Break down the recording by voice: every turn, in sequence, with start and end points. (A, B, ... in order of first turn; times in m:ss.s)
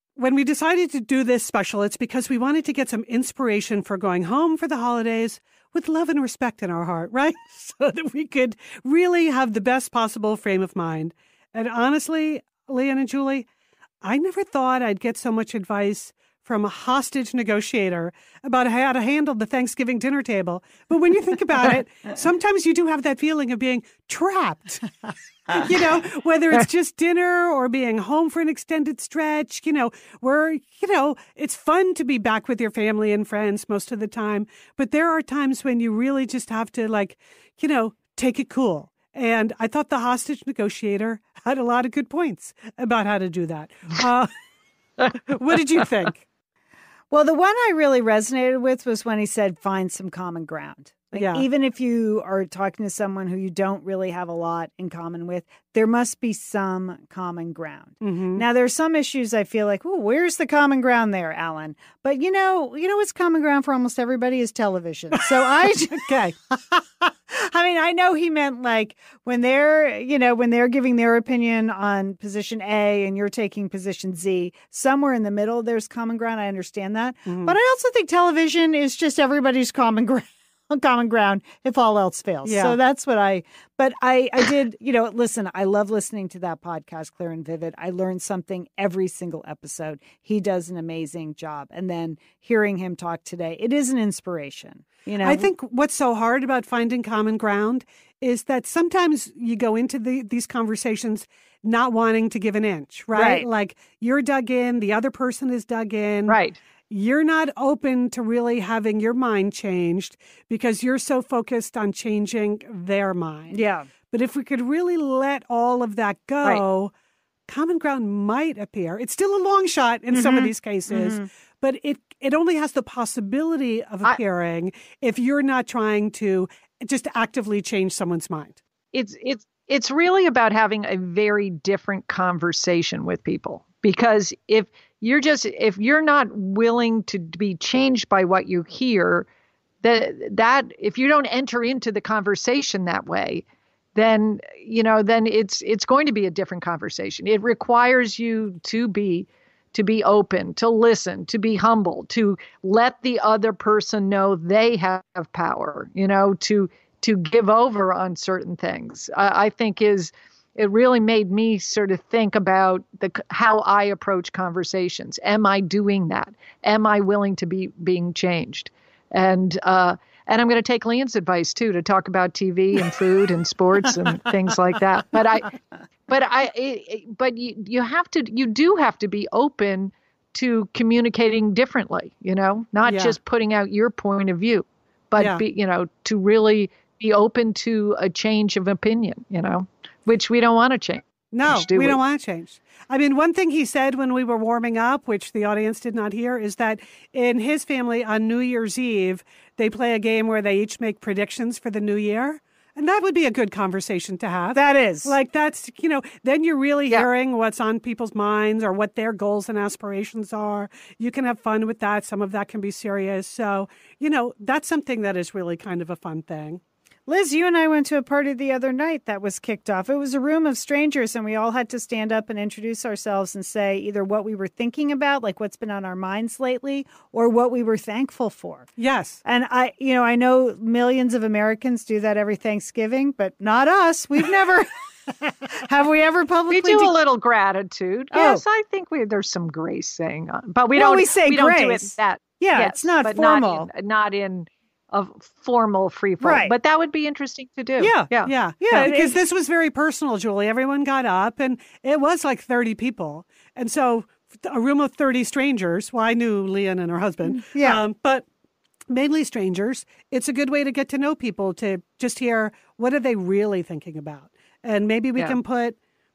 0:00.2-0:13.5 A
0:14.0-0:24.9 A
0:25.5-0:44.3 A
0:45.1-0:46.2 A
0:47.1-1:35.5 B
0:51.1-0:51.5 A
0:58.0-0:58.4 A
1:05.9-1:06.3 A
1:17.3-1:17.6 A
1:22.4-1:22.8 A
1:35.2-1:46.4 A
1:43.1-1:43.5 B
1:46.3-1:46.6 C
1:46.9-1:53.6 A
1:53.5-1:53.9 B
1:54.1-1:56.9 A
1:57.5-2:08.6 A
2:00.1-2:01.3 B
2:08.9-2:19.3 C
2:19.8-2:23.4 C
2:24.0-2:55.5 C
2:56.1-3:12.0 C
3:02.9-3:03.2 A
3:05.2-3:05.4 A
3:11.3-3:36.6 A
3:24.5-3:25.2 B
3:37.1-3:48.7 B
3:48.8-3:49.2 A
3:49.2-3:57.0 B
3:56.5-4:08.3 C
3:58.1-3:58.4 B
4:00.7-4:03.7 B
4:06.2-4:06.5 B
4:07.8-4:09.2 B
4:08.3-4:18.2 A
4:17.3-4:17.8 B
4:18.9-4:25.8 A